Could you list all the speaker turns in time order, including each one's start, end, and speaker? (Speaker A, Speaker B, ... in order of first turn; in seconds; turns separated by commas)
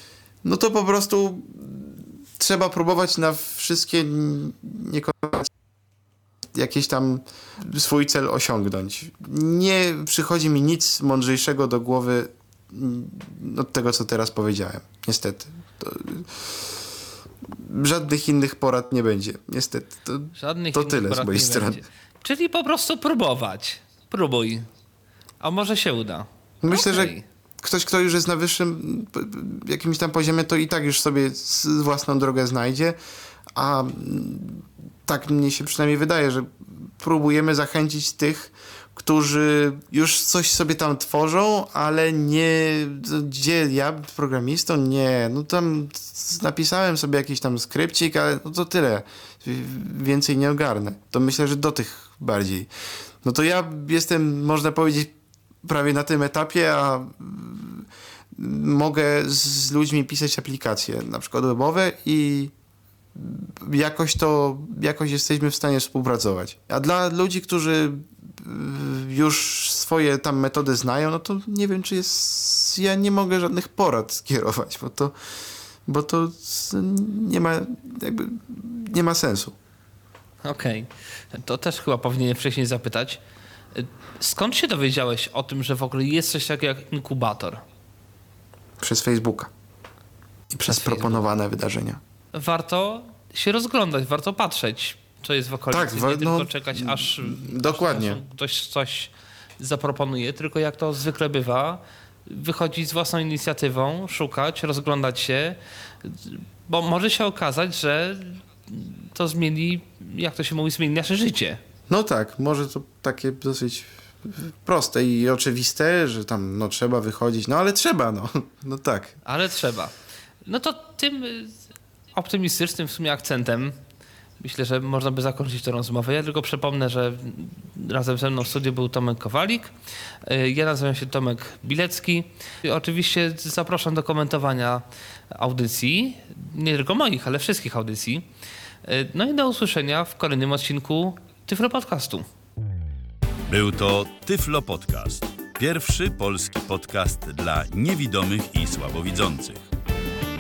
Speaker A: 0.4-5.5, Speaker A: 6.5-16.7, Speaker A: 17.5-21.8, Speaker B: 20.3-24.7, Speaker B: 25.4-27.2, Speaker A: 26.6-33.0, Speaker A: 33.5-52.7, Speaker A: 53.2-62.5, Speaker A: 63.1-75.1, Speaker A: 75.8-79.5, Speaker B: 80.4-83.2, Speaker B: 83.7-87.6, Speaker A: 88.8-89.5, Speaker A: 90.5-92.0, Speaker B: 90.7-91.2, Speaker B: 92.3-111.6, Speaker A: 95.7-98.2, Speaker A: 111.9-119.2, Speaker B: 119.2-119.9, Speaker B: 120.4-121.6, Speaker B: 122.1-123.8, Speaker B: 124.4-138.2, Speaker B: 138.8-142.2, Speaker C: 143.5-149.6